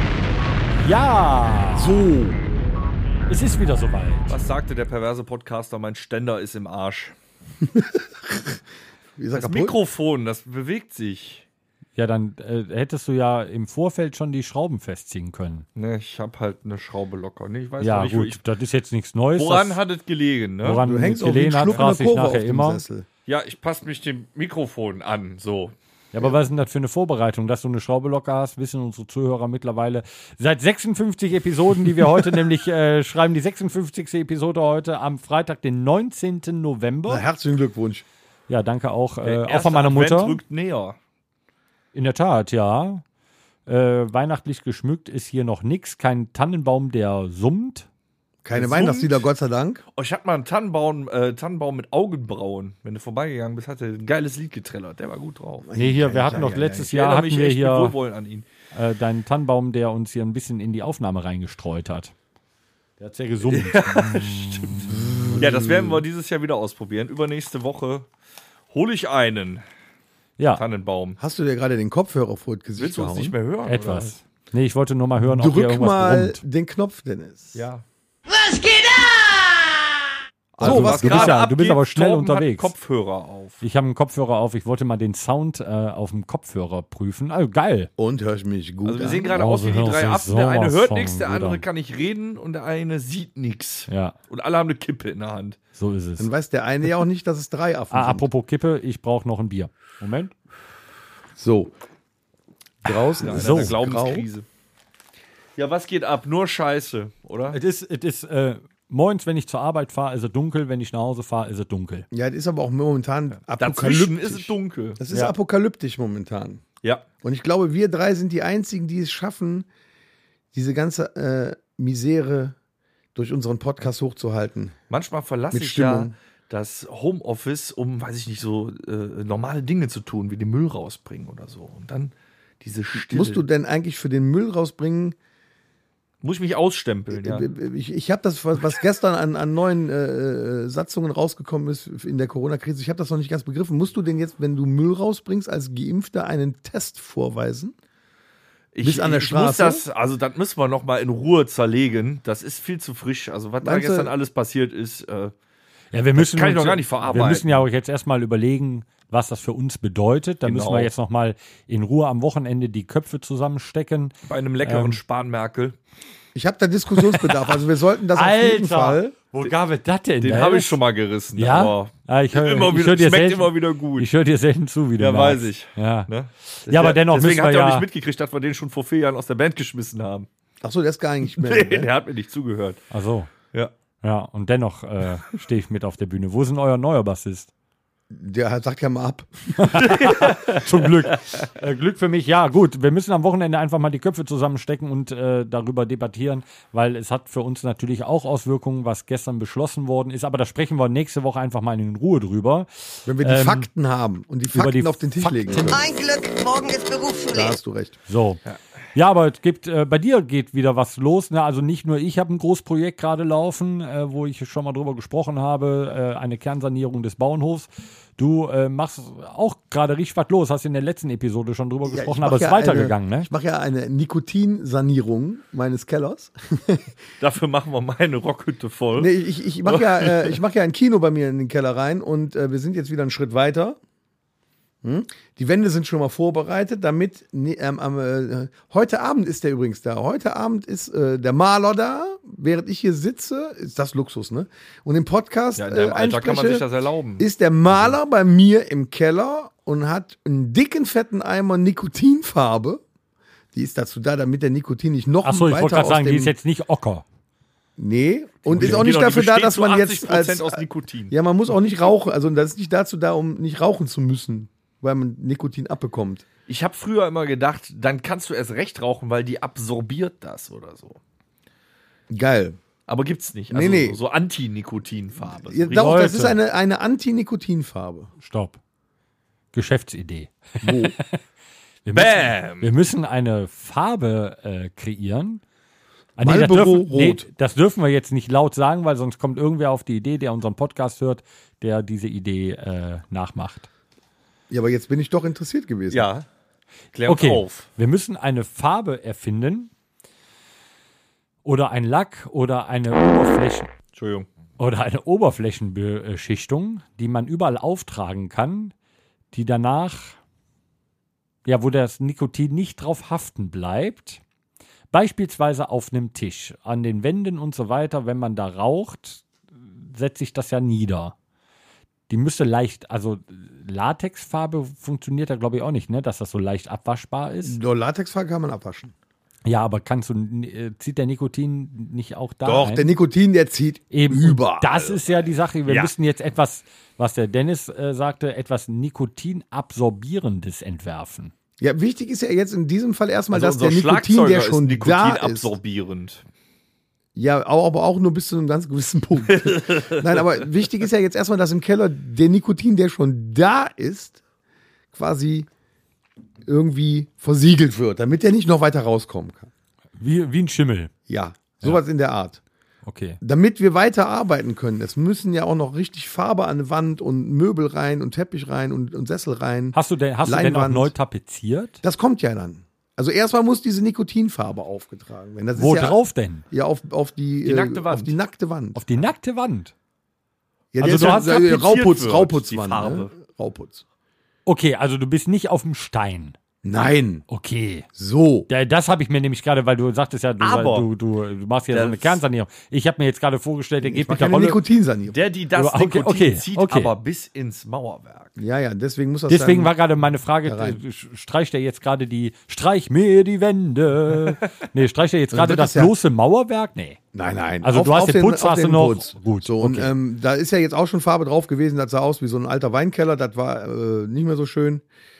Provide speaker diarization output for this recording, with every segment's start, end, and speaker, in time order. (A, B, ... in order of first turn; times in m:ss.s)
0:00.8-0:02.0 A
0:01.8-0:02.4 B
0:03.3-0:04.3 A
0:04.3-0:07.1 C
0:07.7-0:08.6 B
0:09.2-0:09.8 B
0:09.3-0:11.4 C
0:12.0-0:15.6 A
0:15.8-0:18.4 C
0:17.8-0:19.8 A
0:19.4-0:20.8 C
0:20.6-0:22.8 A
0:20.8-0:23.0 B
0:23.2-0:25.7 C
0:26.1-0:37.2 A
0:37.1-0:38.0 B
0:38.5-0:40.4 A
0:39.2-0:41.0 C
0:41.9-0:43.0 A
0:43.7-0:47.9 A
0:48.4-0:49.8 B
0:48.5-0:49.2 C
0:50.0-0:55.7 C
0:55.6-0:56.9 B
0:55.7-0:57.9 A
0:56.8-0:58.4 C
0:58.7-1:02.1 A
1:03.0-1:04.9 A
1:03.5-1:08.1 C
1:04.9-1:06.0 B
1:08.7-1:09.6 C
1:10.4-1:10.6 A
1:10.5-1:11.2 C
1:11.2-1:13.3 B
1:12.8-1:14.2 C
1:13.7-1:16.4 A
1:15.2-1:17.6 B
1:17.5-1:17.8 C
1:18.3-1:20.1 D
1:20.5-1:23.6 C
1:20.6-1:21.4 B
1:20.6-1:22.7 A
1:23.6-1:27.9 A
1:28.0-1:29.3 B
1:28.8-1:35.6 C
1:29.3-1:31.6 A
1:33.9-1:34.1 A
1:35.8-1:36.3 A
1:36.2-1:38.3 B
1:37.9-1:40.3 A
1:41.4-1:41.7 B
1:42.8-1:44.3 B
1:43.1-1:43.7 A
1:43.2-1:44.4 C
1:45.6-1:47.6 C
1:47.5-1:52.0 A
1:52.1-1:56.6 B
1:53.6-1:55.0 C
1:57.2-1:59.7 B
2:00.5-2:02.6 B
2:03.1-2:04.8 B
2:04.9-2:13.4 C
2:05.5-2:06.1 B
2:13.0-2:15.2 B
2:16.2-2:17.5 C
2:17.1-2:27.7 B
2:28.7-2:35.3 C
2:28.8-2:29.8 B
2:33.6-2:34.1 B
2:35.9-2:45.0 A
2:36.2-2:37.6 C
2:40.4-2:40.9 C
2:44.2-2:45.8 C
2:46.3-2:49.1 B
2:48.1-2:50.8 A
2:50.2-2:54.1 C
2:51.4-2:56.1 A
2:55.0-3:00.3 C
2:56.6-2:57.8 A
3:00.6-3:01.9 B
3:01.3-3:02.8 C
3:02.9-3:03.3 A
3:04.0-3:07.5 A
3:08.1-3:09.7 B
3:09.6-3:23.7 A
3:09.9-3:10.6 C
3:23.0-3:25.8 B
3:24.5-3:25.8 A
3:25.6-3:27.6 D
3:27.3-3:28.0 B
3:28.1-3:28.4 A
3:28.9-3:43.3 A
3:41.9-3:46.9 B
3:47.2-3:49.1 C
3:49.0-3:53.8 B
3:49.6-3:50.4 C
3:54.8-4:06.6 B
4:05.6-4:07.2 C
4:07.2-4:12.8 B
4:13.5-4:16.3 B
4:15.2-4:17.0 A
4:17.8-4:26.2 B
4:18.5-4:21.1 C
4:26.5-4:31.0 C
4:32.1-4:32.6 B
4:32.9-4:36.1 C
4:33.5-4:34.0 B
4:35.3-4:38.1 B
4:35.7-4:36.4 A
4:38.2-4:38.6 A
4:39.5-4:41.2 A
4:40.6-4:41.0 B
4:41.8-4:45.4 A
4:41.9-4:42.7 C
4:46.2-4:53.7 A
4:46.2-4:47.2 B
4:54.5-4:56.1 B
4:55.9-4:56.3 C
4:56.9-4:57.7 C
4:57.0-4:59.7 A
5:01.4-5:03.7 A
5:03.9-5:04.3 C
5:04.6-5:08.7 A
5:09.3-5:10.2 A
5:11.4-5:14.2 A
5:14.9-5:19.2 A
5:19.8-5:21.1 A
5:22.1-5:27.6 A
5:27.4-5:28.9 B
5:29.4-5:32.9 A
5:32.4-5:35.0 B
5:33.9-5:41.3 A
5:35.7-5:35.9 C
5:41.6-5:45.5 B
5:43.3-5:46.2 C
5:47.1-5:54.2 B
5:49.3-5:50.1 C
5:54.9-5:55.5 B
5:56.4-5:59.5 B
6:00.0-6:00.9 A
6:01.1-6:02.4 B
6:02.8-6:03.2 A
6:03.2-6:10.9 B
6:09.7-6:11.8 A
6:11.8-6:16.0 B
6:15.5-6:16.4 A
6:16.5-6:18.8 B
6:17.4-6:18.2 C
6:18.7-6:19.7 A
6:20.7-6:23.8 B
6:20.8-6:21.4 A
6:20.9-6:23.1 C
6:24.4-6:26.4 A
6:26.6-6:27.2 B
6:27.3-6:27.9 A
6:28.0-6:28.5 B
6:28.5-6:34.6 A
6:30.4-6:30.9 C
6:31.7-6:32.2 C
6:33.8-6:35.2 B
6:35.1-6:38.3 C
6:35.6-6:36.9 A
6:38.4-6:39.7 B
6:39.3-6:47.0 A
6:40.4-6:40.8 B
6:45.3-6:45.9 B
6:47.1-6:54.8 B
6:47.6-6:49.9 A